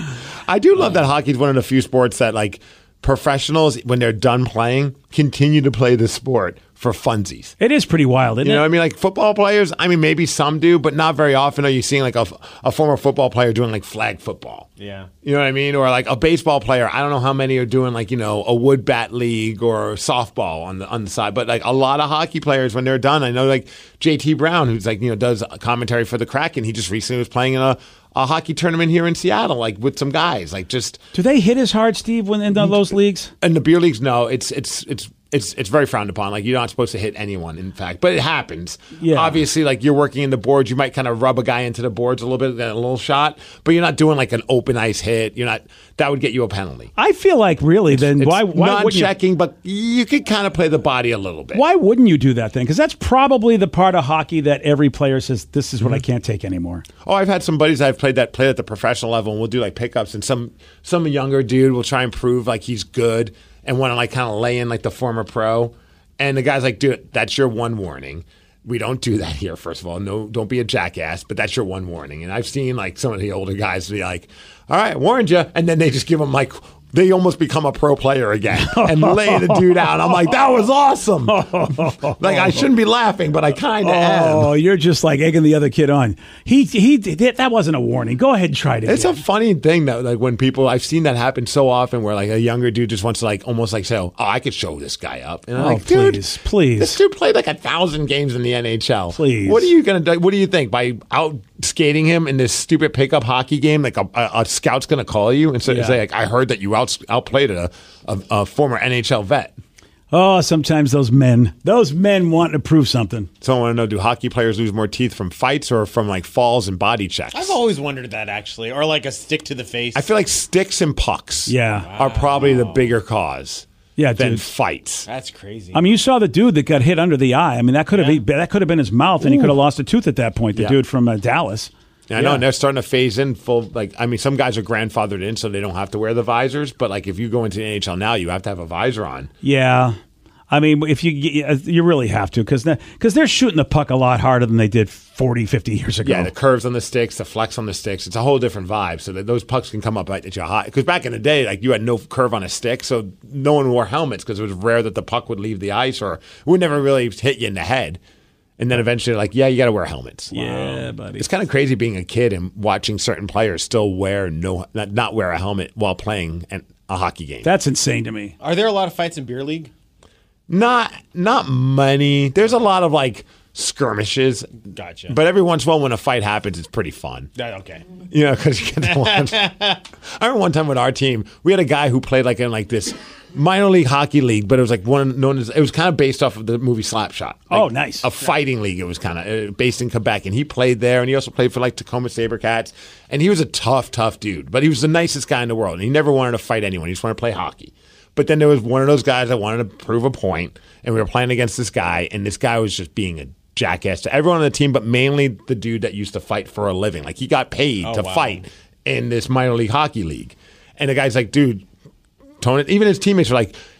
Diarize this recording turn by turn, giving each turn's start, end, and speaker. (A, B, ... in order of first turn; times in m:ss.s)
0:00.4-0:07.5 A
0:07.6-0:08.6 B
0:08.4-0:14.7 A
0:14.8-0:15.1 C
0:15.2-0:31.0 A
0:31.1-0:33.3 B
0:33.4-0:46.9 A
0:39.0-0:39.4 B
0:47.0-0:49.1 B
0:47.9-0:51.6 A
0:51.5-0:56.8 B
0:57.0-1:24.5 A
1:18.6-1:20.2 B
1:21.3-1:22.7 B
1:23.8-1:29.2 B
1:28.8-1:36.2 A
1:35.6-1:37.0 B
1:36.8-1:49.6 A
1:39.1-1:39.7 B
1:45.6-1:46.0 B
1:50.1-1:53.3 B
1:53.4-1:57.6 A
1:57.3-2:00.1 C
1:59.9-2:05.1 A
2:01.5-2:01.9 B
2:01.9-2:03.0 C
2:04.0-2:04.4 B
2:05.1-2:05.8 C
2:05.7-2:12.4 B
2:07.9-2:08.2 C
2:12.1-2:19.3 A
2:19.4-2:20.0 B
2:20.5-2:26.3 B
2:26.0-2:38.0 A
2:38.6-2:47.5 A
2:40.3-2:41.3 B
2:47.4-2:48.3 B
2:48.4-2:49.7 C
2:50.5-2:54.6 A
2:54.7-2:55.2 C
2:55.1-2:57.3 A
2:57.4-2:58.0 C
2:58.1-3:31.6 A
2:59.0-2:59.8 C
3:07.5-3:08.1 B
3:27.8-3:28.4 C
3:32.4-3:33.6 A